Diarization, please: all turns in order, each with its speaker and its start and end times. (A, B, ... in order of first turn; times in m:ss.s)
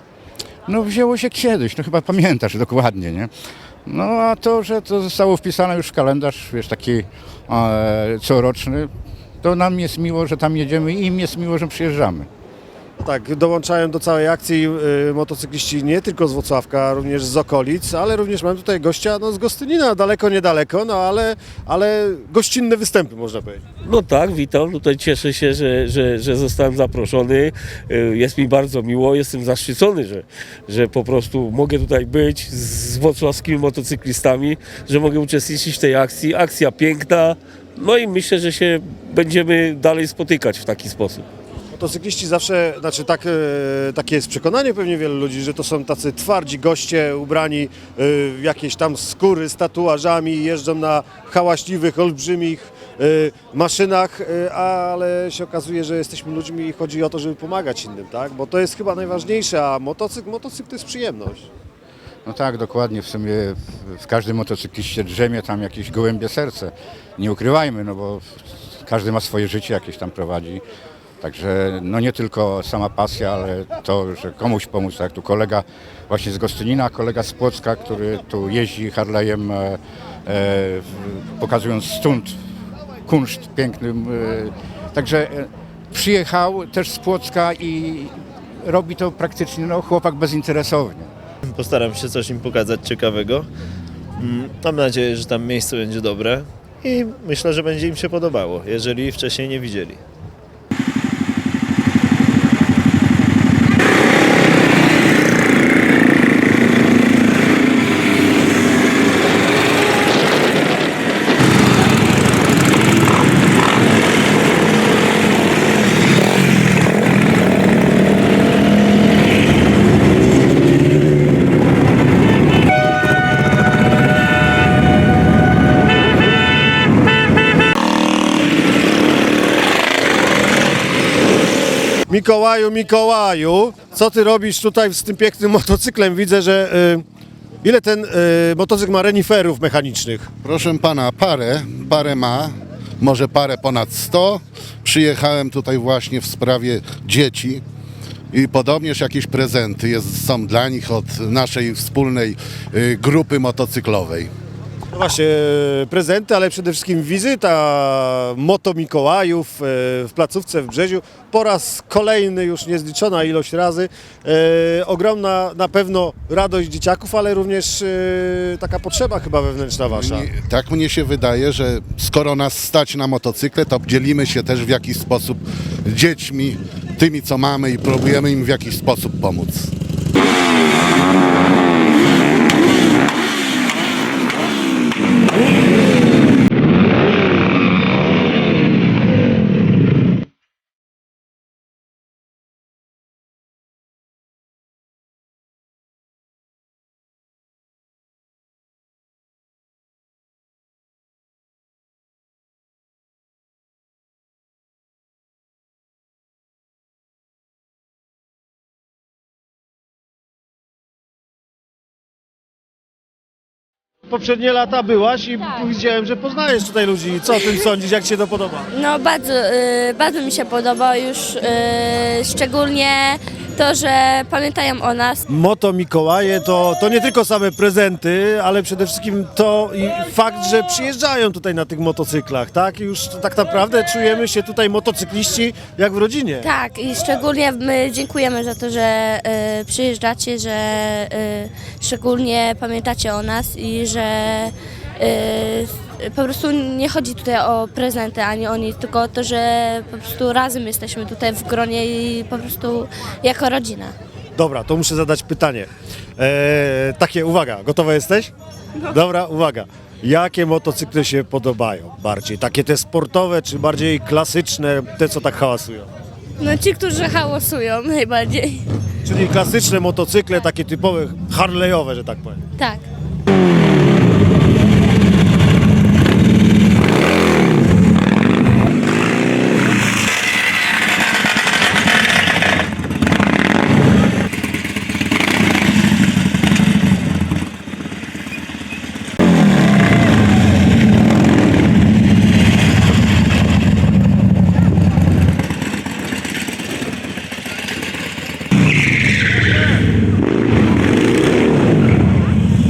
0:00.7-0:03.3 A
0:03.9-0:08.9 A
0:09.4-0:12.3 A
0:13.0-0:23.6 B
0:23.9-0:41.2 C
0:41.7-1:01.5 B
1:02.3-1:10.6 A
1:11.2-1:22.4 A
1:23.1-1:31.1 A
1:31.4-1:33.5 D
1:34.2-1:40.0 D
2:12.1-2:17.0 B
2:17.6-2:20.3 B
2:20.4-2:27.6 E
2:28.3-2:34.3 E
2:34.9-2:50.3 B
2:49.9-2:59.7 E
3:34.1-3:38.7 B
3:38.7-3:45.2 F
3:45.3-3:56.5 B
3:56.4-4:14.0 F
4:14.4-4:18.3 B
4:18.9-4:25.9 B
4:26.4-4:28.6 F
4:29.0-4:32.4 B
4:32.6-4:32.8 F